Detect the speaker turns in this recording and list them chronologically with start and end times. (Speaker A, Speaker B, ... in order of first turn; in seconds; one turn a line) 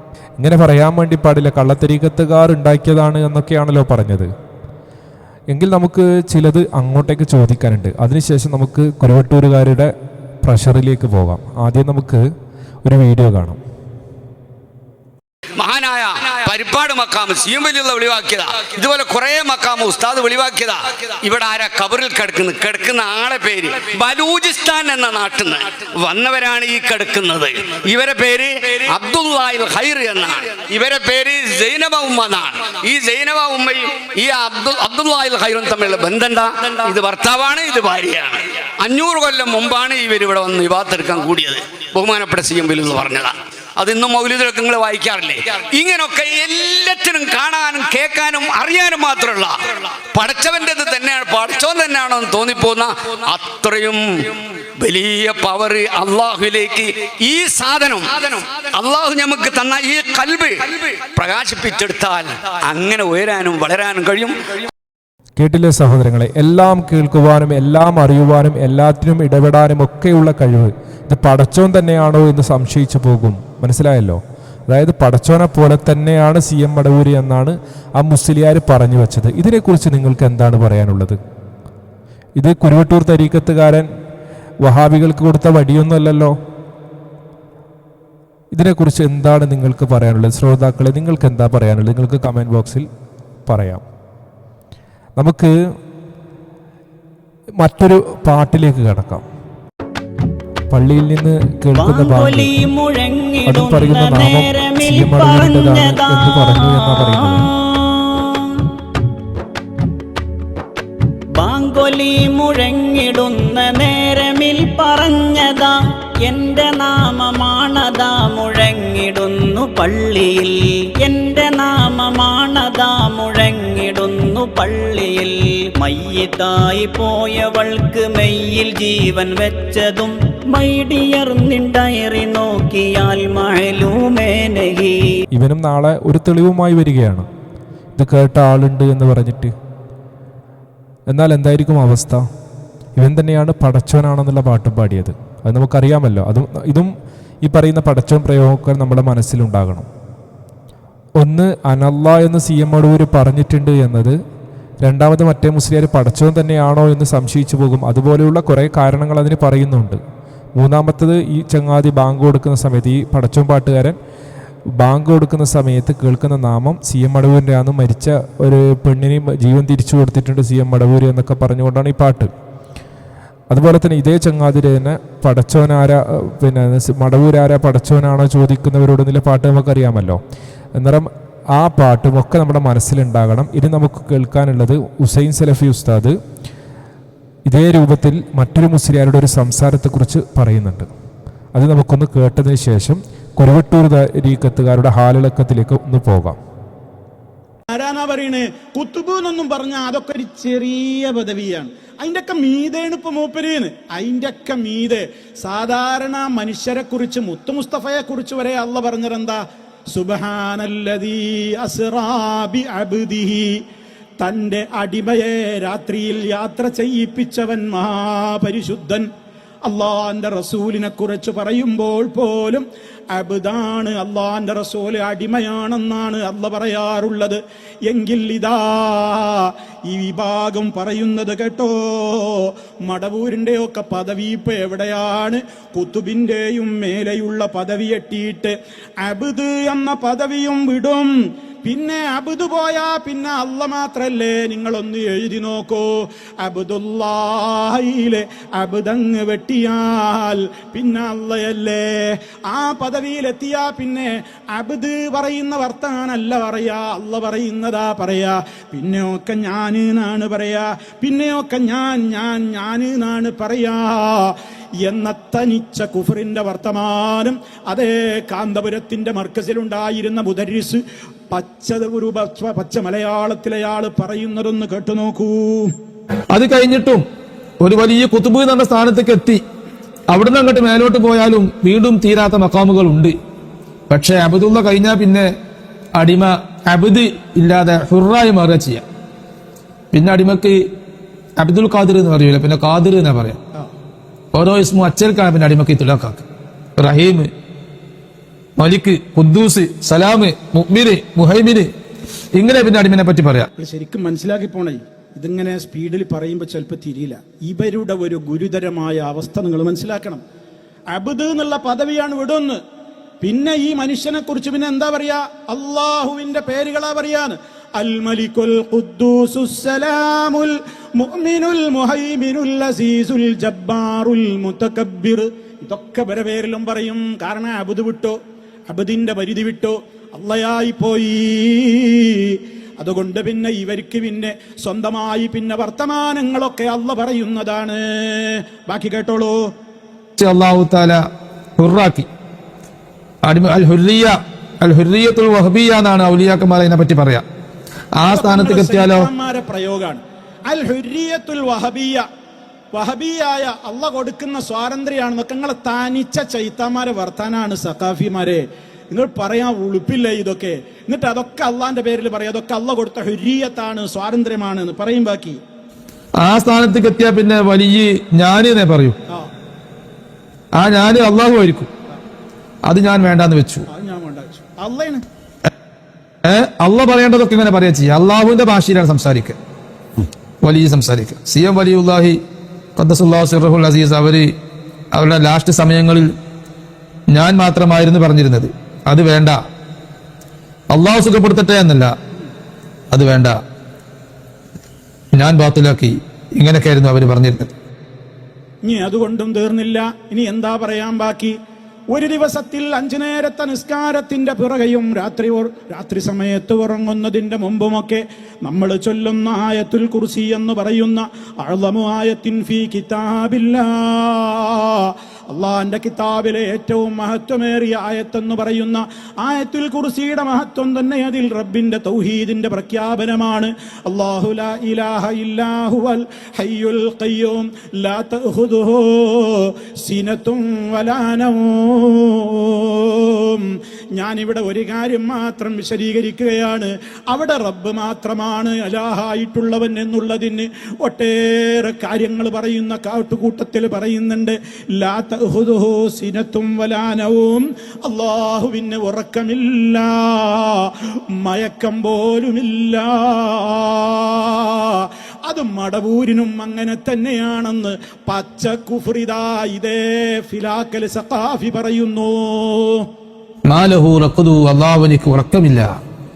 Speaker A: 0.4-4.3
Speaker A: 5.5-9.9
Speaker A: 10.4-12.2
Speaker A: 12.8-13.6
Speaker B: 15.6-64.7
Speaker A: 65.4-81.2
Speaker A: 82.4-83.9
Speaker A: 84.6-86.3
Speaker A: 88.5-92.9
Speaker A: 93.5-93.8
Speaker A: 95.2-95.5
Speaker A: 97.6-99.2
Speaker A: 100.7-102.6
Speaker C: 101.8-108.5
Speaker A: 103.5-107.4
Speaker C: 111.4-134.9
Speaker A: 135.3-137.2
Speaker A: 138.0-139.5
Speaker A: 141.1-142.2
Speaker A: 143.0-146.9
Speaker A: 147.4-149.9
Speaker A: 151.2-154.2
Speaker A: 154.8-160.0
Speaker A: 160.6-163.9
Speaker A: 164.8-172.3
Speaker A: 173.5-180.2
Speaker A: 180.8-186.1
Speaker A: 187.5-190.9
Speaker A: 191.5-196.4
Speaker D: 197.7-209.4
Speaker D: 209.9-213.6
Speaker D: 214.2-219.1
Speaker D: 219.6-241.1
Speaker D: 241.6-275.8
Speaker E: 276.3-277.0
Speaker E: 277.6-279.4
Speaker E: 280.1-283.1
Speaker E: 283.9-285.3
Speaker E: 286.0-288.8
Speaker E: 289.9-290.6
Speaker E: 291.4-293.4
Speaker E: 294.3-296.2
Speaker E: 296.8-297.3
Speaker E: 298.6-301.7
Speaker E: 302.4-303.5
Speaker D: 303.6-310.2
Speaker D: 310.9-312.6
Speaker D: 313.2-339.5
Speaker E: 340.2-341.0
Speaker E: 341.6-342.1
Speaker E: 343.2-347.2
Speaker E: 348.0-349.1
Speaker D: 348.1-352.0
Speaker D: 352.7-365.4
Speaker E: 366.2-369.0
Speaker E: 370.5-371.7
Speaker E: 372.7-373.6
Speaker D: 373.7-375.0
Speaker E: 376.2-379.4
Speaker E: 380.4-382.2
Speaker E: 382.8-384.3
Speaker E: 384.9-386.1
Speaker E: 387.1-389.4
Speaker E: 390.7-391.9
Speaker E: 392.9-393.4
Speaker E: 395.1-397.5
Speaker D: 398.6-401.3
Speaker D: 401.9-462.9
Speaker E: 463.5-465.7